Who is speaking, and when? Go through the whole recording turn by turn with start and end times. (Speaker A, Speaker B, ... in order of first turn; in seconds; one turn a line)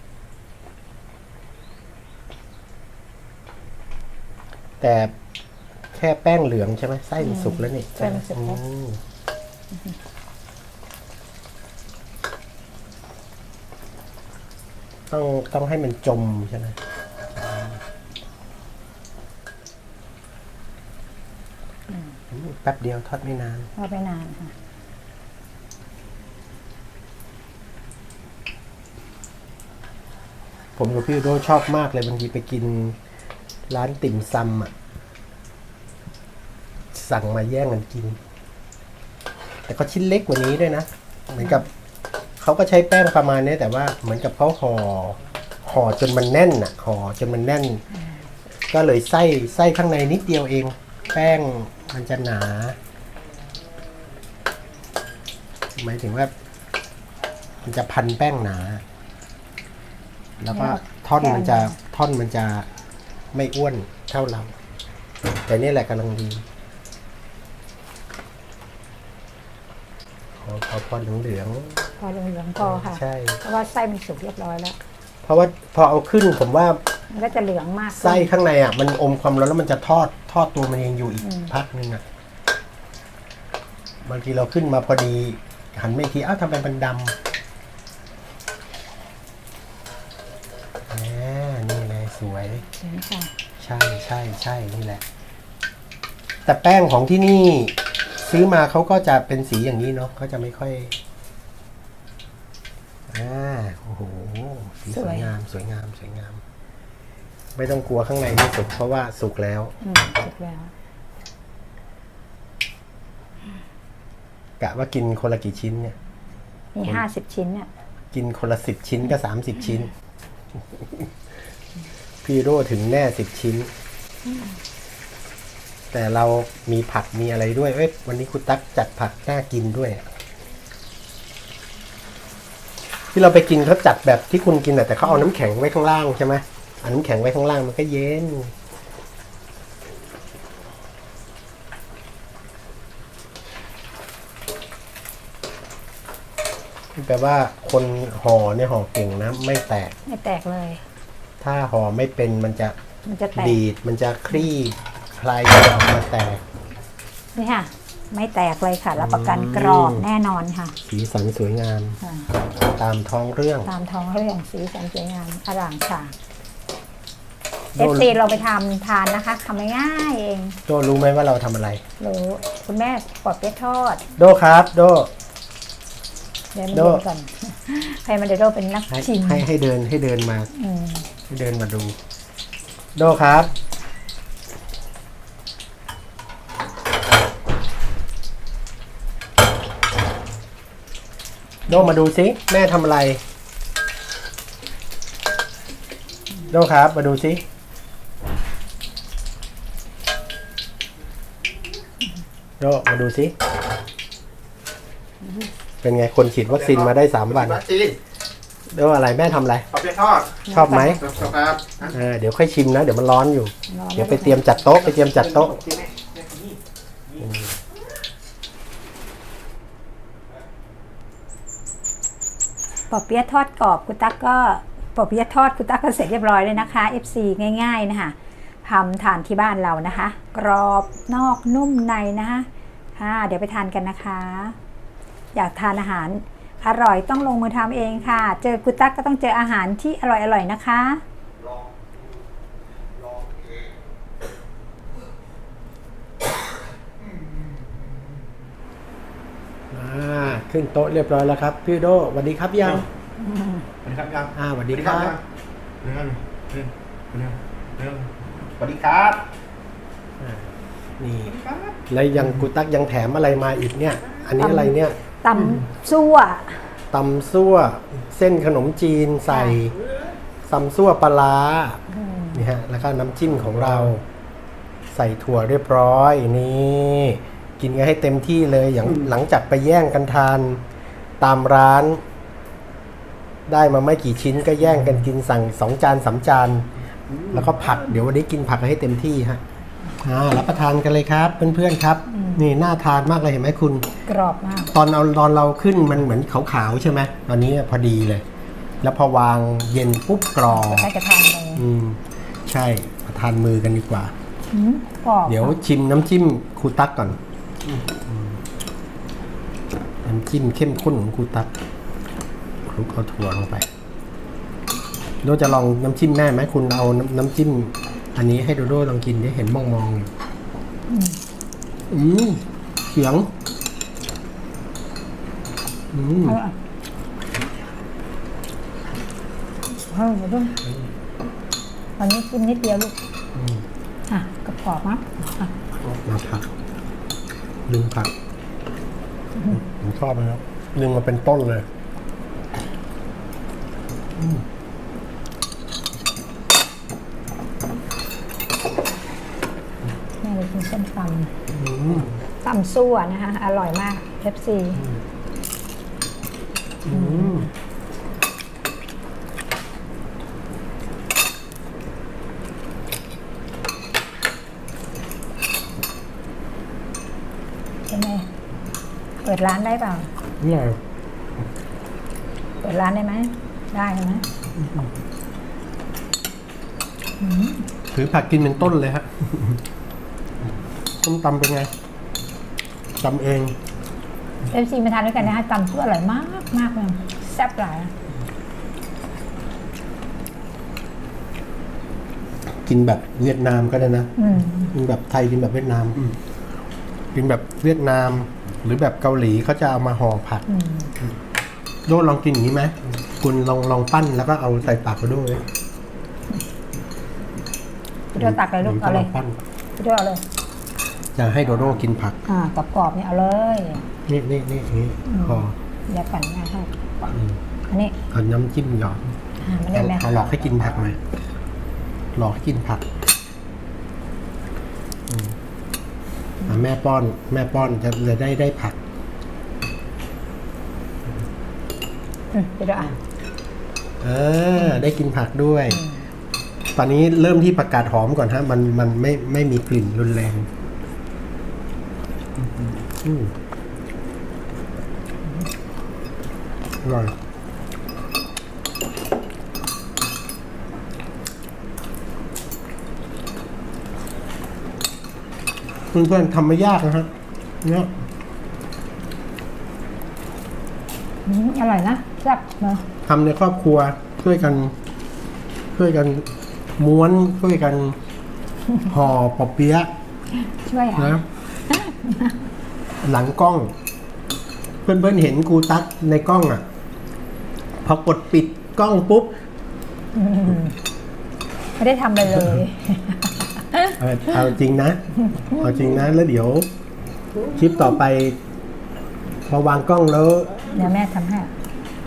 Speaker A: 4.8-5.1
Speaker A: 5.9-9.0
Speaker B: 7.2-8.6
Speaker A: 15.1-16.8
Speaker A: 17.3-17.8
Speaker B: 21.9-22.1
Speaker A: 22.3-23.7
Speaker B: 23.8-24.5
Speaker A: 30.8-33.0
Speaker A: 33.7-34.7
Speaker A: 36.9-38.2
Speaker A: 39.7-41.7
Speaker A: 42.4-47.8
Speaker A: 48.7-52.8
Speaker A: 55.8-56.3
Speaker A: 57.6-58.8
Speaker A: 60.4-62.7
Speaker B: 60.5-61.8
Speaker A: 63.3-64.5
Speaker A: 65.5-66.5
Speaker A: 70.4-71.9
Speaker B: 72.0-74.8
Speaker A: 72.6-73.4
Speaker A: 75.2-76.8
Speaker B: 77.1-78.3
Speaker A: 77.9-82.0
Speaker B: 81.2-81.5
Speaker A: 84.0-87.2
Speaker A: 90.9-92.7
Speaker B: 92.7-93.3
Speaker A: 93.6-95.0
Speaker A: 96.5-101.0
Speaker A: 103.1-106.4
Speaker B: 104.9-105.3
Speaker A: 107.5-109.8
Speaker B: 109.8-110.7
Speaker A: 114.6-116.0
Speaker B: 116.8-117.7
Speaker A: 118.1-119.9
Speaker A: 120.7-121.1
Speaker A: 122.2-123.7
Speaker A: 125.9-130.1
Speaker A: 133.1-138.5
Speaker A: 146.9-149.9
Speaker B: 150.1-150.8
Speaker A: 151.4-152.8
Speaker B: 153.1-153.6
Speaker A: 153.3-156.4
Speaker B: 157.4-160.8
Speaker A: 159.0-160.1
Speaker A: 160.8-162.0
Speaker B: 162.0-162.3
Speaker A: 162.6-163.7
Speaker B: 163.7-166.2
Speaker A: 167.8-168.1
Speaker B: 167.8-170.6
Speaker A: 170.7-171.8
Speaker B: 172.0-174.1
Speaker A: 174.2-175.1
Speaker B: 176.5-179.5
Speaker A: 176.7-177.0
Speaker A: 178.9-180.5
Speaker B: 180.5-181.1
Speaker A: 181.3-182.0
Speaker A: 183.0-183.5
Speaker A: 191.7-193.2
Speaker A: 196.5-197.4
Speaker A: 202.6-203.3
Speaker A: 205.8-207.7
Speaker C: 207.5-207.9
Speaker A: 208.7-209.7
Speaker C: 209.7-211.9
Speaker B: 210.5-211.0
Speaker A: 210.5-211.1
Speaker A: 211.8-215.6
Speaker B: 213.7-214.6
Speaker C: 215.0-216.5
Speaker A: 217.2-217.5
Speaker B: 222.9-234.6
Speaker B: 235.3-241.0
Speaker A: 249.7-252.9
Speaker B: 253.2-253.7
Speaker C: 253.8-255.2
Speaker A: 254.3-255.2
Speaker C: 255.8-259.2
Speaker A: 260.2-261.4
Speaker C: 261.3-261.8
Speaker A: 261.9-265.0
Speaker B: 264.4-266.8
Speaker A: 266.9-269.8
Speaker B: 269.3-269.6
Speaker A: 270.4-271.8
Speaker B: 271.9-272.4
Speaker A: 272.3-274.0
Speaker A: 274.9-280.6
Speaker A: 281.2-282.0
Speaker A: 283.5-286.7
Speaker A: 287.3-289.4
Speaker A: 290.0-293.9
Speaker B: 292.1-292.5
Speaker B: 294.1-294.7
Speaker A: 294.7-298.2
Speaker A: 298.8-300.9
Speaker B: 300.5-301.7
Speaker A: 301.6-304.1
Speaker B: 304.5-305.6
Speaker A: 305.3-307.2
Speaker A: 307.7-308.4
Speaker A: 310.0-311.5
Speaker A: 312.7-313.7
Speaker A: 315.2-320.1
Speaker B: 320.9-321.2
Speaker A: 321.9-323.3
Speaker A: 325.9-326.4
Speaker B: 326.2-326.6
Speaker B: 329.8-330.6
Speaker B: 332.0-332.9
Speaker A: 333.4-333.6
Speaker B: 334.1-335.5
Speaker A: 335.8-336.5
Speaker A: 337.7-338.1
Speaker B: 339.4-339.6
Speaker A: 339.5-341.7
Speaker B: 350.2-351.4
Speaker A: 351.5-352.2
Speaker B: 352.4-354.8
Speaker A: 356.9-357.5
Speaker B: 356.9-357.5
Speaker B: 367.9-368.3
Speaker B: 369.2-370.1
Speaker A: 370.4-370.8
Speaker B: 372.6-374.2
Speaker B: 377.2-377.7
Speaker A: 377.9-379.6
Speaker A: 381.0-381.7
Speaker A: 383.0-383.6
Speaker B: 384.5-387.9
Speaker A: 392.6-396.1
Speaker B: 394.2-394.7
Speaker A: 397.1-400.4
Speaker B: 400.5-400.9
Speaker A: 401.9-405.5
Speaker B: 408.1-409.1
Speaker A: 408.2-409.4
Speaker B: 409.8-410.2
Speaker A: 411.1-412.2
Speaker B: 412.3-413.9
Speaker A: 414.1-415.6
Speaker B: 415.1-417.1
Speaker B: 417.7-418.0
Speaker A: 418.1-419.1
Speaker B: 419.4-420.2
Speaker A: 419.7-421.0
Speaker A: 422.1-422.9
Speaker A: 425.1-425.4
Speaker A: 426.4-428.8
Speaker B: 432.3-433.0
Speaker A: 434.0-435.9
Speaker B: 435.7-436.1
Speaker A: 436.8-440.5
Speaker A: 443.0-443.3
Speaker A: 446.8-447.1
Speaker A: 455.9-457.1
Speaker A: 457.6-457.9
Speaker B: 461.2-462.9
Speaker A: 463.1-464.8
Speaker A: 465.7-468.0
Speaker A: 468.8-469.9
Speaker B: 470.4-472.4
Speaker A: 471.0-471.2
Speaker A: 473.0-473.8
Speaker A: 474.9-476.7
Speaker A: 477.8-479.4
Speaker B: 480.1-480.8
Speaker B: 481.8-484.0
Speaker A: 484.0-486.7
Speaker B: 485.2-485.7
Speaker A: 487.5-488.4
Speaker A: 489.5-490.7
Speaker B: 490.7-491.5